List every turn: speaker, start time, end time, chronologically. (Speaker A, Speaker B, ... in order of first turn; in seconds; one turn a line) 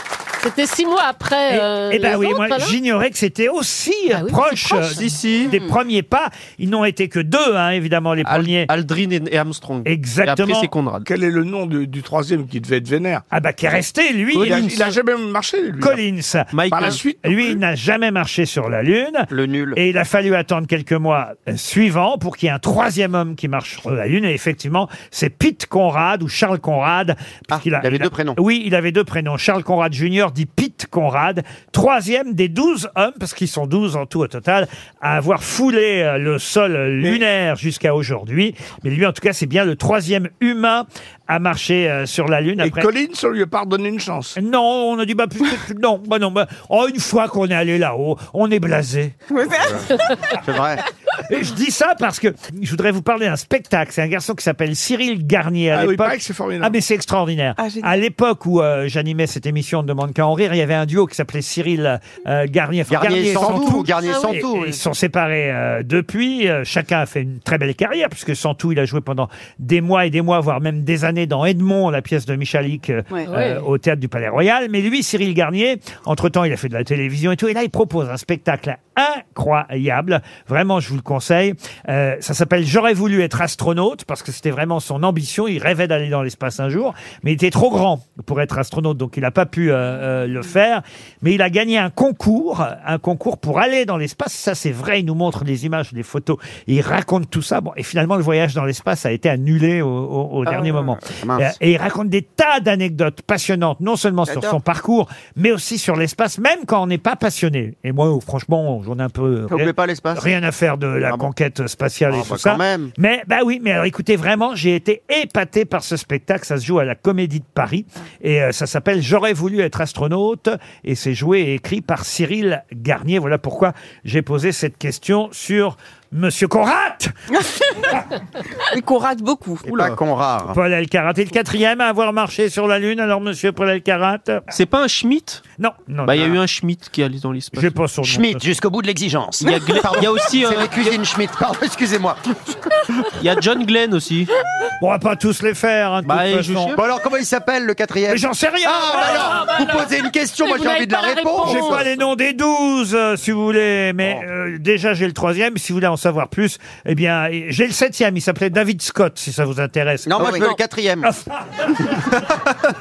Speaker A: 0.4-2.8
Speaker B: 1.5-8.7
Speaker A: 4.1-5.1
Speaker C: 4.9-5.6
Speaker C: 8.2-11.1
Speaker B: 9.8-10.7
Speaker D: 11.1-13.2
Speaker B: 13.3-14.7
Speaker C: 14.3-14.9
Speaker D: 14.4-16.0
Speaker B: 15.8-42.9
Speaker C: 16.5-17.0
Speaker D: 16.7-17.6
Speaker E: 19.3-19.8
Speaker E: 27.5-28.4
Speaker D: 42.6-44.4
Speaker B: 44.4-49.1
Speaker F: 49.3-50.1
Speaker E: 49.6-50.8
Speaker B: 51.3-127.1
Speaker D: 55.7-56.8
Speaker F: 57.6-57.9
Speaker E: 62.9-64.8
Speaker A: 64.0-64.4
Speaker A: 73.3-73.7
Speaker E: 101.2-101.5
Speaker F: 104.3-104.6
Speaker E: 109.5-110.3
Speaker E: 112.1-112.9
Speaker F: 127.3-128.0
Speaker F: 128.7-129.7
Speaker C: 129.7-130.0
Speaker E: 129.7-130.6
Speaker B: 130.5-134.4
Speaker C: 134.5-135.4
Speaker B: 135.6-136.4
Speaker C: 136.1-137.8
Speaker B: 137.6-138.4
Speaker E: 138.0-142.6
Speaker C: 139.4-141.0
Speaker C: 143.2-144.3
Speaker B: 144.8-146.8
Speaker C: 146.1-146.8
Speaker E: 146.8-151.9
Speaker B: 148.1-149.4
Speaker A: 148.9-149.9
Speaker A: 150.4-151.9
Speaker B: 151.4-160.5
Speaker E: 160.1-161.1
Speaker A: 160.2-160.6
Speaker B: 161.0-162.2